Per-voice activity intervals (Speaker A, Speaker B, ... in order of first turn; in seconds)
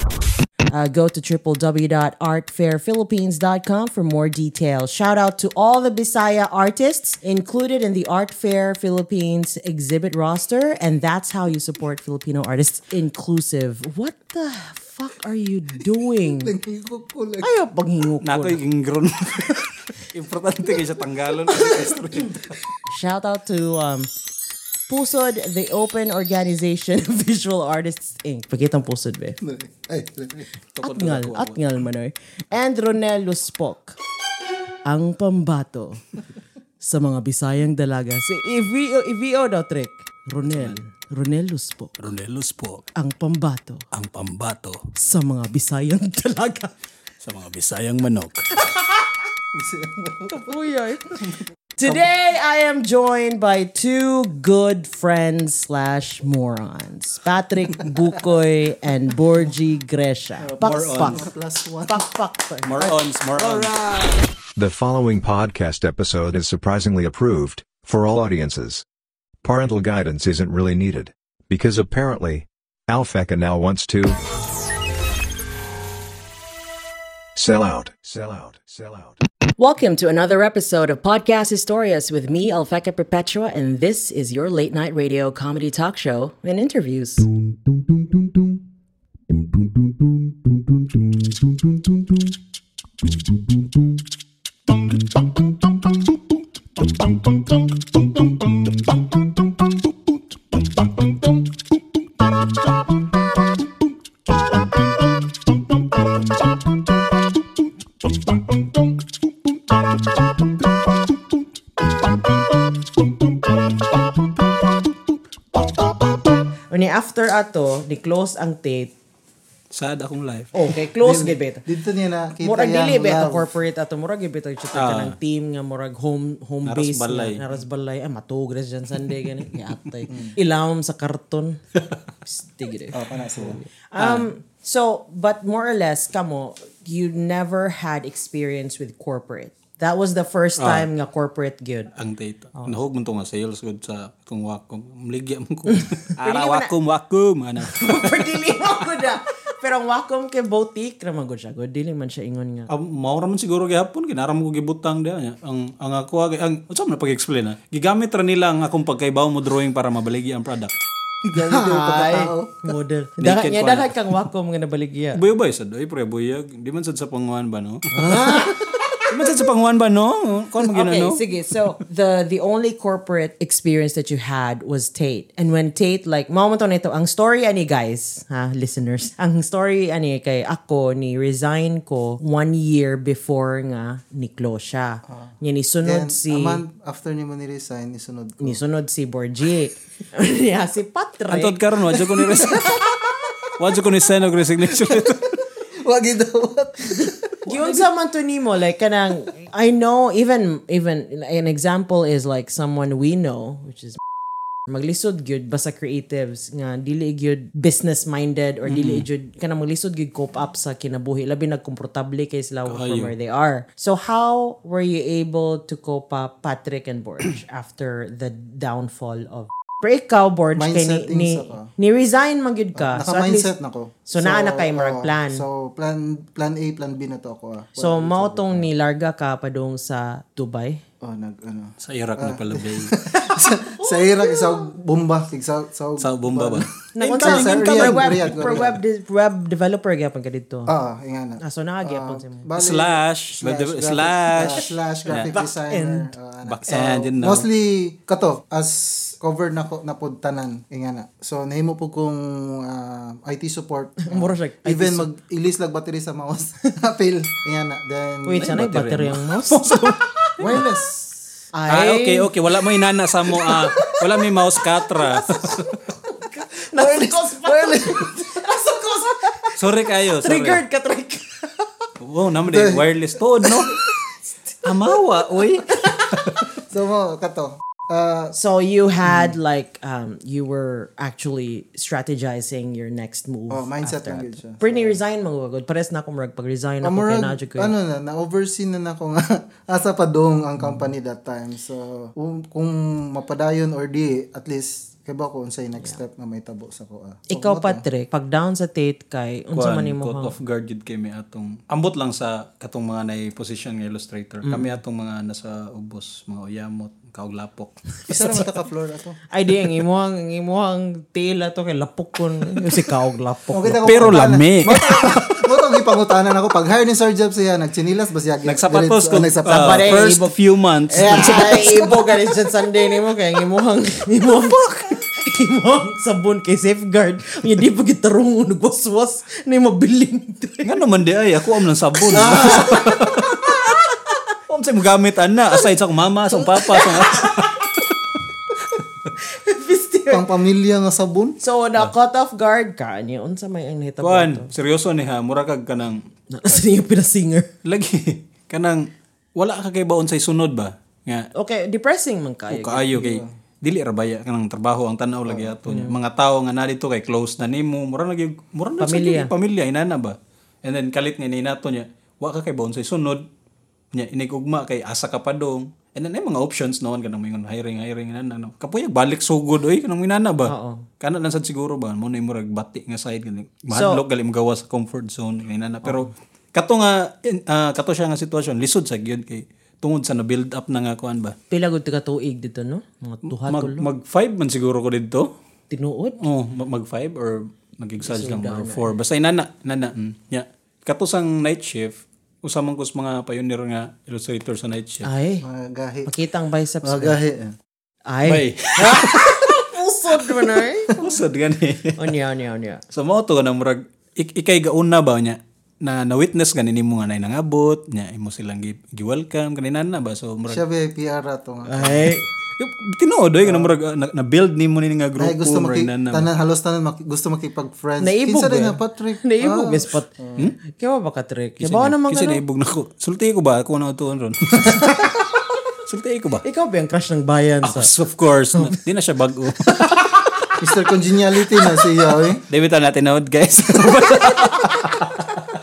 Speaker A: 0.7-16.5, 17.4-18.6, 22.9-24.1, 24.9-29.4, 30.8-34.0, 34.9-36.0, 36.8-42.0, 43.0-43.8, 44.9-46.7, 48.5-49.1, 50.3-51.2, 51.8-61.2, 61.9-62.8, 63.4-64.1, 79.6-87.3, 116.7-118.9, 120.5-121.6, 122.4-131.6, 132.2-141.9, 142.6-142.8, 146.2-146.7, 147.6-152.7, 161.3-165.2, 167.9-169.0, 170.7-186.6, 188.4-191.6, 197.4-204.0, 204.7-223.5, 224.1-225.4, 227.8-230.8, 233.2-234.7, 236.9-240.7, 241.4-242.4, 244.3-246.1, 254.1-255.1, 258.2-260.7, 261.5-262.3, 263.3-264.0, 264.9-269.5, 270.1-271.4, 278.3-287.7, 297.3-300.3, 304.4-304.8, 309.3-315.2, 319.4-320.3, 320.9-330.8, 332.1-333.7, 336.3-337.7, 339.2-340.2, 341.4-344.5, 346.3-347.5, 351.3-353.0, 355.7-356.0, 358.8-359.3, 370.4-370.9, 373.7-374.0, 381.5-383.9, 385.7-386.2, 388.0-388.9, 395.0-395.4, 396.1-397.2, 398.1-401.2, 401.9-402.8, 411.7-412.3, 418.0-420.1, 420.7-422.4, 426.4-427.9, 429.7-430.2, 434.2-435.0
Speaker B: 16.4-17.5, 21.5-21.9, 29.4-30.5, 49.5-50.5, 60.4-62.0, 121.0-123.5, 130.1-130.3, 132.9-133.6, 161.3-162.7, 167.9-169.0, 185.8-188.6, 191.9-193.4, 194.7-195.3, 195.8-197.2, 220.5-221.7, 222.8-228.7, 231.0-238.8, 240.7-258.5, 260.4-261.1, 263.5-263.9, 266.7-268.4, 272.5-272.8, 273.4-273.7, 276.6-278.3, 279.0-279.4, 283.5-285.0, 286.8-297.8, 308.1-309.2, 313.5-319.8, 321.5-322.0, 332.1-332.9, 340.1-341.4, 352.9-353.3, 355.2-355.6, 395.4-396.1, 396.8-397.5, 410.5-412.1, 413.4-413.8, 415.2-420.4, 430.6-432.4
Speaker C: 18.2-22.6, 30.7-31.6, 40.4-40.8, 42.0-42.9, 43.9-44.8, 47.2-48.4, 60.6-61.2, 62.6-63.8, 119.7-120.5, 124.7-125.1, 126.7-127.4, 134.0-134.3, 140.6-140.9, 142.0-148.3, 152.7-160.7, 163.2-164.0, 165.1-167.8, 169.1-171.2, 191.3-192.8, 193.6-195.3, 197.5-197.8, 208.7-209.0, 212.7-213.1, 231.8-232.9, 236.0-238.7, 242.6-245.3, 246.4-247.5, 258.4-260.0, 261.7-265.6, 269.6-270.6, 272.0-273.8, 274.6-276.4, 299.5-307.7, 313.8-315.1, 318.4-321.9, 324.4-324.9, 330.6-333.9, 334.5-337.7, 344.0-346.0, 347.6-351.3, 352.5-363.2, 363.9-381.4, 383.3-385.3, 386.2-395.1, 398.2-399.5, 400.1-402.0, 402.9-410.6, 412.6-416.3, 421.6-425.1, 425.9-426.4, 427.6-429.7, 432.5-435.4
Speaker D: 64.5-68.8, 69.4-74.2, 77.3-79.2